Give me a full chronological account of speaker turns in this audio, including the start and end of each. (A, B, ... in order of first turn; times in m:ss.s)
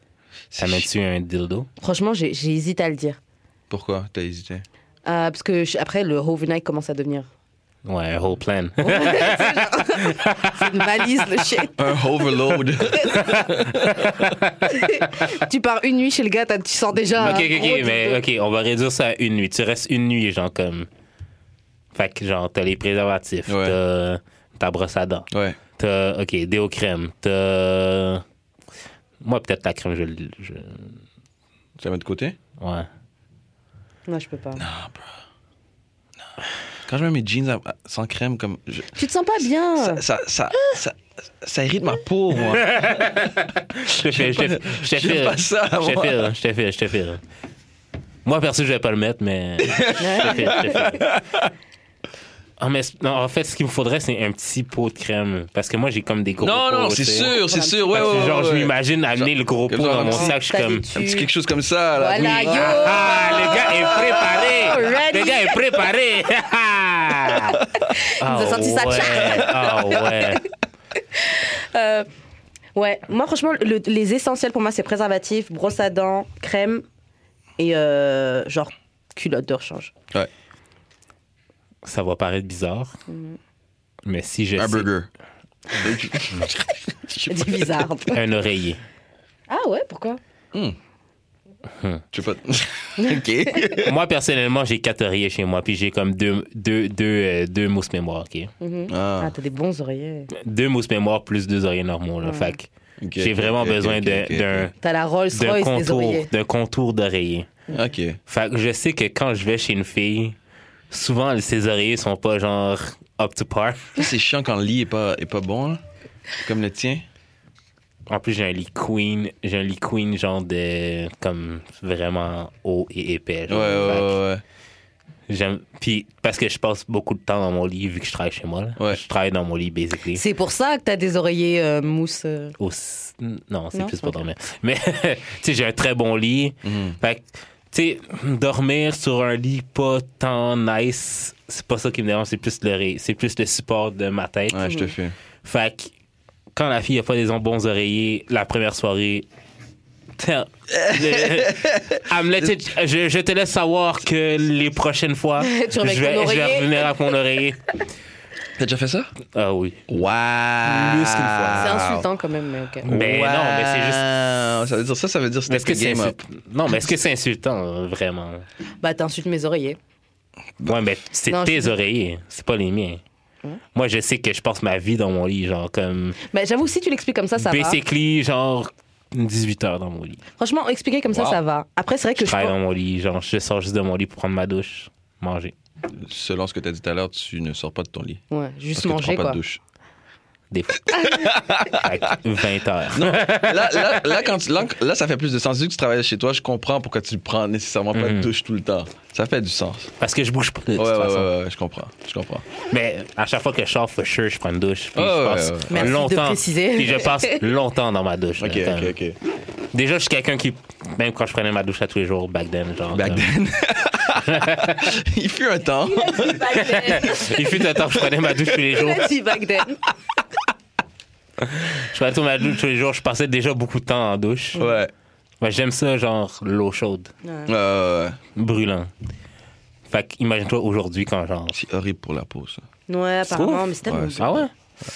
0:00.5-0:00.9 A
0:00.6-0:01.7 B
0:01.8-0:03.2 C
0:03.7-0:04.6 A
0:05.0-0:07.3 C
0:07.8-0:10.8 B
0:08.8-0:12.0 C
0:11.8-0:14.3 A
0:12.8-0:13.5 C
0:13.2-0:14.1 B
0:14.6-0:18.2 C
0:17.2-0:20.9 B
0:21.9-0:28.2 B
0:23.5-0:23.8 A
0:25.3-0:25.6 A
0:29.2-0:31.0 B
0:31.8-0:32.4 A
0:32.6-0:32.9 B
0:34.1-0:34.6 C
0:34.6-0:35.1 A
0:36.9-0:39.0 A
0:39.0-0:40.0 C
0:39.8-0:42.7 A
0:42.3-0:47.2 B
0:44.0-0:46.3 A
0:48.2-0:51.0 B
0:49.6-0:51.5 A
0:50.0-0:50.8 C
0:52.6-0:57.4 B
0:56.4-1:00.4 A
0:57.2-0:58.3 C
0:57.9-1:00.8 B
1:00.0-1:01.3 C
1:00.9-1:04.5 A
1:02.0-1:05.6 C
1:02.2-1:07.6 B
1:07.8-1:10.5 C
1:08.2-1:10.4 B
1:11.1-1:12.1 C
1:12.8-1:16.8 C
1:17.6-1:19.9 C
1:21.8-1:22.9 B
1:23.1-1:23.4 C
1:24.1-1:24.9 B
1:24.6-1:25.1 A
1:25.7-1:27.8 A
1:27.3-1:28.2 C
1:28.1-1:28.8 B
1:29.5-1:30.2 C
1:32.1-1:34.0 A
1:33.0-1:33.2 C
1:33.7-1:38.5 B
1:38.6-1:40.3 C
1:38.9-1:39.3 A
1:40.3-1:44.7 B
1:42.2-1:42.6 C
1:43.0-1:44.7 A
1:44.8-1:46.3 C
1:45.3-1:47.5 B
1:47.7-1:48.2 A
1:48.3-1:50.4 B
1:50.9-1:54.0 B
1:54.0-1:55.8 A
1:56.4-1:57.0 A
1:58.1-2:04.2 B
2:03.5-2:04.4 A
2:05.3-2:10.2 B
2:10.1-2:12.6 C
2:12.6-2:24.7 B
2:13.7-2:14.2 C
2:16.6-2:17.0 A
2:24.5-2:25.2 A
2:24.7-2:24.9 C
2:25.4-2:25.9 B
2:26.5-2:29.3 B
2:30.2-2:37.8 B
2:30.7-2:32.5 A
2:35.4-2:36.8 C
2:38.6-2:39.1 A
2:39.3-2:39.8 B
2:39.9-2:42.1 A
2:40.7-2:41.8 B
2:41.6-2:42.9 C
2:42.8-2:44.1 B
2:42.8-2:46.2 A
2:45.5-2:48.4 B
2:48.8-2:49.8 C
2:50.6-2:53.0 B
2:51.3-2:51.7 C
2:53.7-2:56.2 B
2:56.3-2:57.8 C
2:57.4-3:00.2 B
3:00.4-3:02.6 C
3:01.1-3:01.4 A
3:02.2-3:05.5 B
3:05.9-3:08.2 A
3:08.3-3:09.4 C
3:08.8-3:09.6 A
3:10.5-3:14.2 B
3:11.0-3:11.9 A
3:12.9-3:19.9 A
3:17.9-3:18.3 B
3:20.0-3:21.3 B
3:20.8-3:22.4 A
3:22.7-3:29.0 B
3:25.0-3:26.0 A
3:25.7-3:27.4 C
3:28.4-3:29.2 A
3:29.7-3:33.3 B
3:32.9-3:36.6 A
3:34.3-3:34.9 B
3:35.9-3:37.4 C
3:36.5-3:39.1 B
3:38.7-3:39.8 C
3:41.4-3:44.6 B
3:44.6-3:44.9 A
3:45.4-3:47.1 B
3:47.5-3:48.2 A
3:48.4-3:48.9 B
3:49.9-3:51.6 B
3:51.5-3:52.6 A
3:52.9-3:54.3 C
3:53.3-3:53.7 B
3:53.8-3:54.5 A
3:54.2-3:54.5 B